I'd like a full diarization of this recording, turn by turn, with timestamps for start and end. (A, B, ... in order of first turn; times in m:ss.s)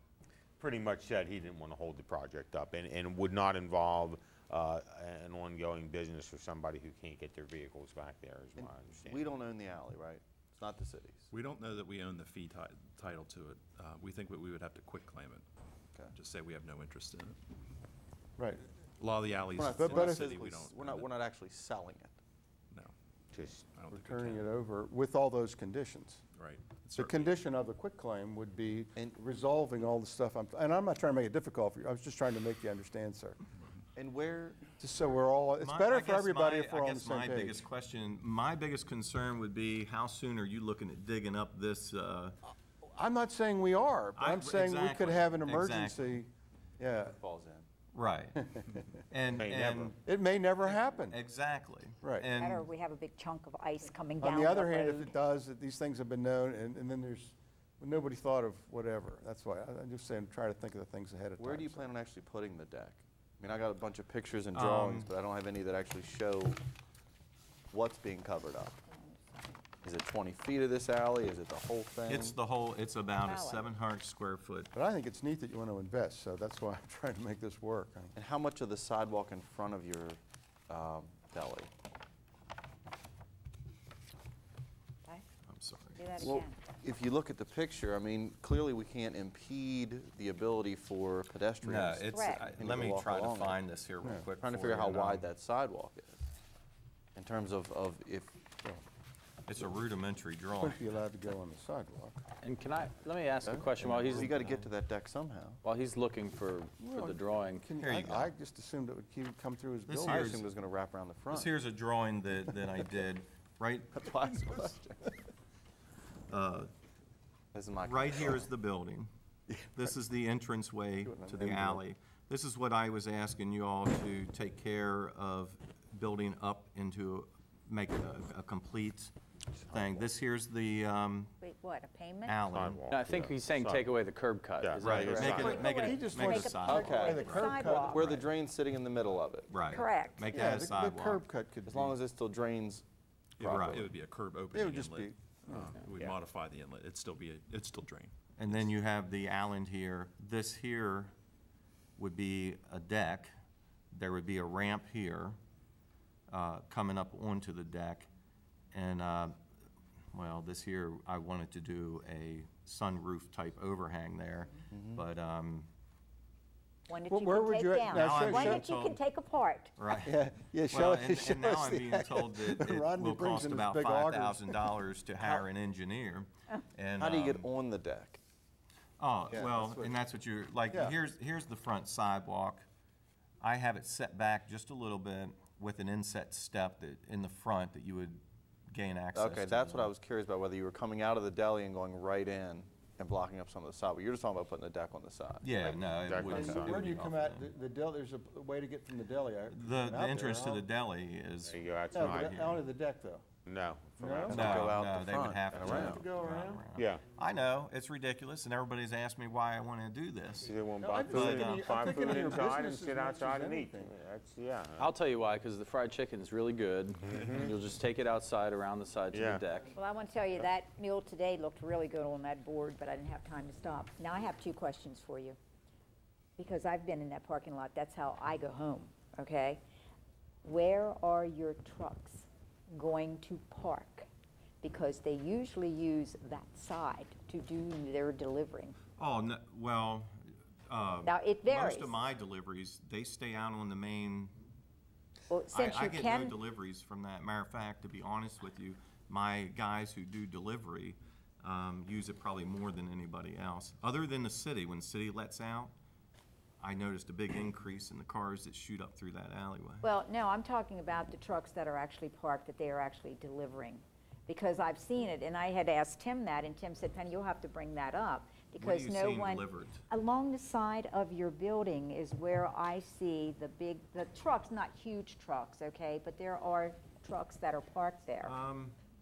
0:00.6-0:09.3 A
0:08.6-0:11.3 B
0:11.3-0:15.5 C
0:16.1-0:17.4 C
0:18.4-0:18.6 D
0:19.0-0:21.1 C
0:19.6-0:22.2 B
0:19.8-0:20.3 D
0:23.3-0:23.6 A
0:23.7-0:24.5 C
0:23.9-0:26.2 D
0:26.4-0:27.4 C
0:26.9-0:33.4 D
0:34.0-0:34.7 B
0:34.8-0:37.7 D
0:35.6-0:42.4 E
0:42.5-0:47.2 D
0:44.2-0:46.1 E
0:47.0-0:47.7 B
0:47.9-0:48.5 E
0:49.1-0:50.0 E
0:49.3-0:50.0 A
0:50.0-0:51.2 D
0:50.6-0:52.7 E
0:52.0-0:52.3 D
0:52.4-0:55.1 F
0:54.2-1:01.9 D
1:01.4-1:06.6 B
1:04.5-1:05.1 E
1:07.7-1:08.8 B
1:08.9-1:09.2 F
1:09.8-1:12.4 B
1:12.1-1:14.7 E
1:13.2-1:13.7 F
1:14.7-1:18.2 D
1:18.2-1:21.7 B
1:25.5-1:26.0 E
1:26.0-1:26.6 F
1:26.2-1:33.6 B
1:31.6-1:35.3 E
1:32.1-1:32.5 F
1:34.0-1:34.3 D
1:34.4-1:36.2 B
1:37.2-1:38.4 B
1:39.5-1:40.8 E
1:40.6-1:42.2 D
1:42.4-1:44.5 G
1:43.4-1:45.6 B
1:44.0-1:44.5 E
1:45.6-1:47.7 G
1:46.8-1:50.3 D
1:47.8-1:48.3 E
1:49.9-1:50.4 E
1:50.0-1:51.5 B
1:51.3-1:54.0 E
1:53.9-1:55.0 B
1:56.3-1:56.7 E
1:57.5-1:58.5 B
1:57.8-1:59.1 E
1:59.7-2:09.1 E
2:01.0-2:01.8 D
2:09.7-2:11.3 E
2:11.4-2:12.4 F
2:12.2-2:12.9 E
2:12.4-2:13.9 A
2:12.9-2:15.2 G
2:14.6-2:15.7 A
2:14.8-2:15.5 B
2:14.8-2:17.5 E
2:15.2-2:18.2 D
2:15.2-2:18.1 F
2:16.7-2:19.5 B
2:19.5-2:21.2 E
2:19.7-2:20.3 F
2:20.3-2:22.0 D
2:21.7-2:22.8 B
2:23.4-2:28.7 C
2:23.4-2:23.7 B
2:23.4-2:23.9 E
2:24.5-2:25.5 B
2:28.4-2:31.1 E
2:32.0-2:33.3 E
2:33.9-2:35.4 E
2:36.3-2:38.1 E
2:38.7-2:39.4 E
2:40.1-2:45.7 E
2:44.7-2:45.0 B
2:46.9-2:49.7 F
2:47.1-2:48.6 D
2:47.9-2:49.0 E
2:49.8-2:50.1 E
2:50.0-2:55.4 D
2:50.7-2:57.5 E
2:57.0-2:58.2 B
2:59.0-3:02.6 E
2:59.3-3:00.0 D
3:00.7-3:01.0 D
3:03.4-3:09.9 E
3:09.1-3:16.7 B
3:15.4-3:17.5 E
3:15.6-3:16.9 A
3:16.1-3:20.6 D
3:19.5-3:22.6 E
3:21.4-3:22.6 A
3:21.9-3:23.3 D
3:23.4-3:24.8 A
3:24.0-3:24.6 D
3:24.3-3:31.7 E
3:24.3-3:26.1 B
3:25.5-3:26.7 D
3:25.5-3:25.8 A
3:26.8-3:27.0 A
3:30.4-3:34.9 A
3:30.8-3:34.0 D
3:34.8-3:39.8 G
3:37.0-3:37.6 A
3:39.1-3:39.5 A
3:39.7-3:45.4 F
3:46.4-3:49.6 F
3:50.4-3:54.1 F
3:54.6-3:58.8 F
3:59.0-4:00.1 E
4:00.7-4:04.4 E
4:01.0-4:02.0 F
4:05.3-4:06.4 F
4:05.5-4:15.7 E
4:16.6-4:19.9 E
4:19.8-4:38.3 F
4:28.6-4:29.8 E
4:38.2-4:38.8 E